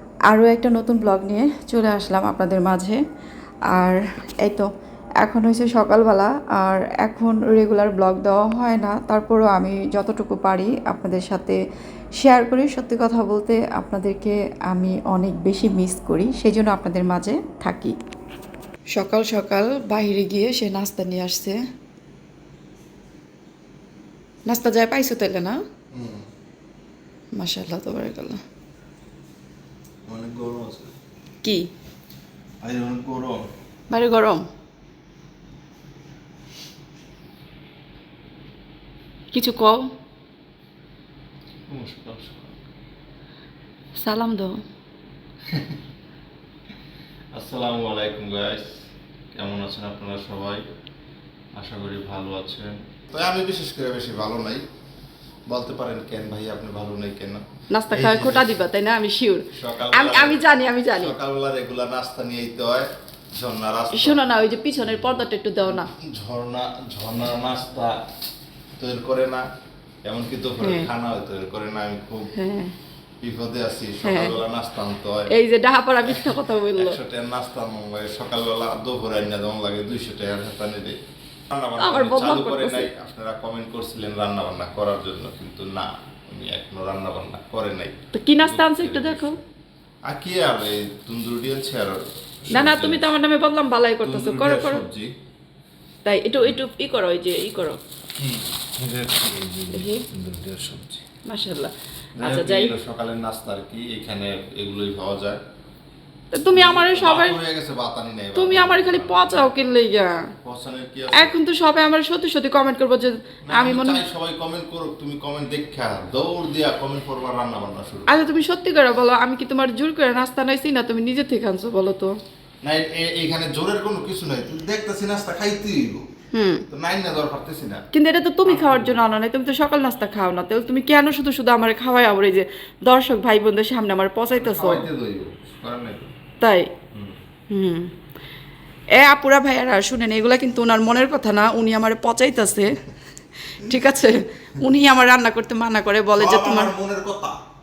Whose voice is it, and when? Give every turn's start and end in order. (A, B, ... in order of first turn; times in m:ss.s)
0:00.3-0:03.0 A
0:03.7-0:04.7 A
0:05.2-0:11.6 A
0:12.2-0:18.0 A
0:19.0-0:21.6 A
0:24.5-0:25.6 A
0:25.9-0:26.2 B
0:27.4-0:28.4 A
0:30.1-0:30.9 B
0:31.4-0:31.7 A
0:32.6-0:33.4 B
0:33.9-0:34.5 A
0:39.3-0:39.8 A
0:41.7-0:42.6 B
0:44.0-0:44.6 A
0:45.4-0:45.8 B
0:47.3-0:48.8 B
0:49.3-0:50.6 B
0:51.6-0:54.6 B
0:55.5-0:58.6 B
0:57.7-1:01.1 A
0:59.5-1:04.2 B
1:03.9-1:05.9 A
1:05.0-1:08.0 B
1:08.8-1:09.4 B
1:10.0-1:12.3 B
1:10.6-1:10.9 A
1:12.3-1:12.7 A
1:13.2-1:15.3 B
1:14.0-1:14.4 A
1:15.3-1:17.0 A
1:16.0-1:21.0 B
1:21.5-1:29.4 B
1:21.8-1:22.9 A
1:28.1-1:29.4 A
1:30.1-1:33.0 B
1:32.5-1:34.8 A
1:34.0-1:35.1 B
1:36.0-1:37.8 A
1:38.2-1:41.0 B
1:39.7-1:40.0 A
1:41.2-1:42.7 A
1:42.2-1:45.4 B
1:46.3-1:47.4 A
1:46.5-1:49.5 B
1:48.3-1:50.3 A
1:50.4-1:51.4 B
1:51.1-1:54.0 A
1:53.4-1:58.2 B
1:58.1-2:02.2 A
2:02.6-2:06.0 B
2:06.3-2:06.6 A
2:06.7-2:07.8 B
2:07.9-2:14.8 A
2:08.4-2:09.0 B
2:14.3-2:16.1 B
2:16.4-2:16.7 A
2:17.5-2:17.9 A
2:18.9-2:22.8 A
2:23.5-2:26.7 A
2:26.2-2:27.4 B